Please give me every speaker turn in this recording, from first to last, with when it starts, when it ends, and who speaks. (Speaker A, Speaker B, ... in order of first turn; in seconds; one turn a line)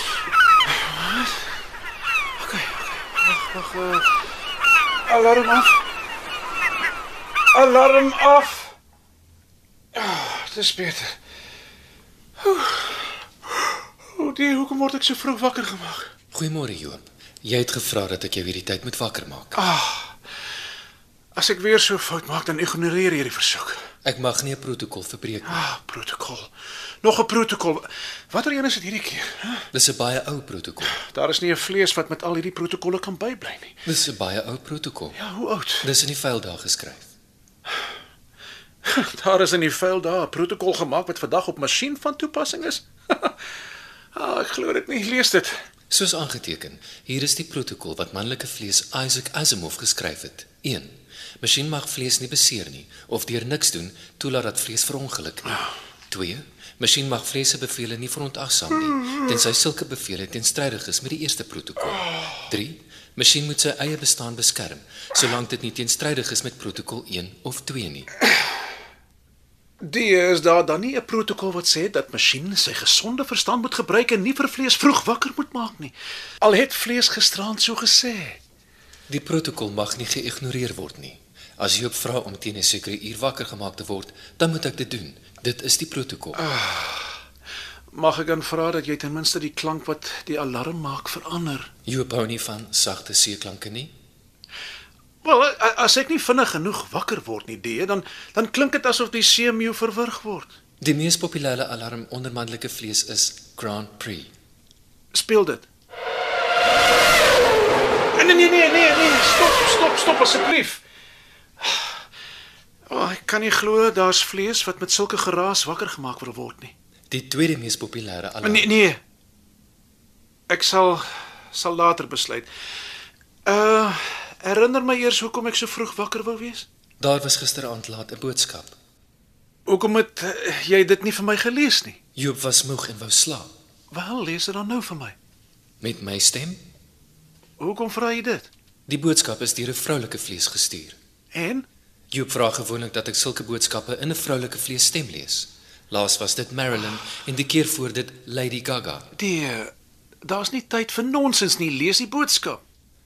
Speaker A: 0.6-1.5
Speaker A: 2.4-4.2
Speaker A: 5.0-5.9
Speaker A: 7.5-8.7
Speaker A: 9.9-11.2
Speaker A: 12.4-16.1
Speaker B: 16.3-19.6
Speaker A: 19.6-20.2
Speaker A: 21.4-23.8
Speaker B: 24.1-25.6
Speaker A: 25.5-26.5
Speaker A: 27.0-29.6
Speaker B: 29.7-31.0
Speaker A: 31.0-33.8
Speaker B: 33.9-35.2
Speaker A: 35.1-35.9
Speaker B: 35.8-37.1
Speaker A: 38.8-43.4
Speaker A: 44.1-45.6
Speaker B: 45.9-68.1
Speaker A: 69.8-78.4
Speaker B: 79.1-86.4
Speaker A: 86.4-87.2
Speaker A: 87.9-91.7
Speaker B: 91.9-93.9
Speaker A: 95.2-100.5
Speaker B: 100.8-104.3
Speaker A: 105.1-105.7
Speaker A: 108.1-110.8
Speaker A: 111.6-111.9
Speaker A: 112.9-116.7
Speaker B: 117.1-118.7
Speaker A: 118.4-119.0
Speaker A: 120.5-122.5
Speaker A: 123.5-126.7
Speaker B: 127.0-128.8
Speaker A: 129.7-132.0
Speaker B: 132.1-133.5
Speaker A: 133.9-135.1
Speaker B: 135.8-136.6
Speaker A: 137.6-138.5
Speaker B: 138.9-141.0
Speaker A: 141.3-141.7
Speaker B: 142.1-149.1
Speaker A: 149.1-149.7
Speaker A: 150.2-152.6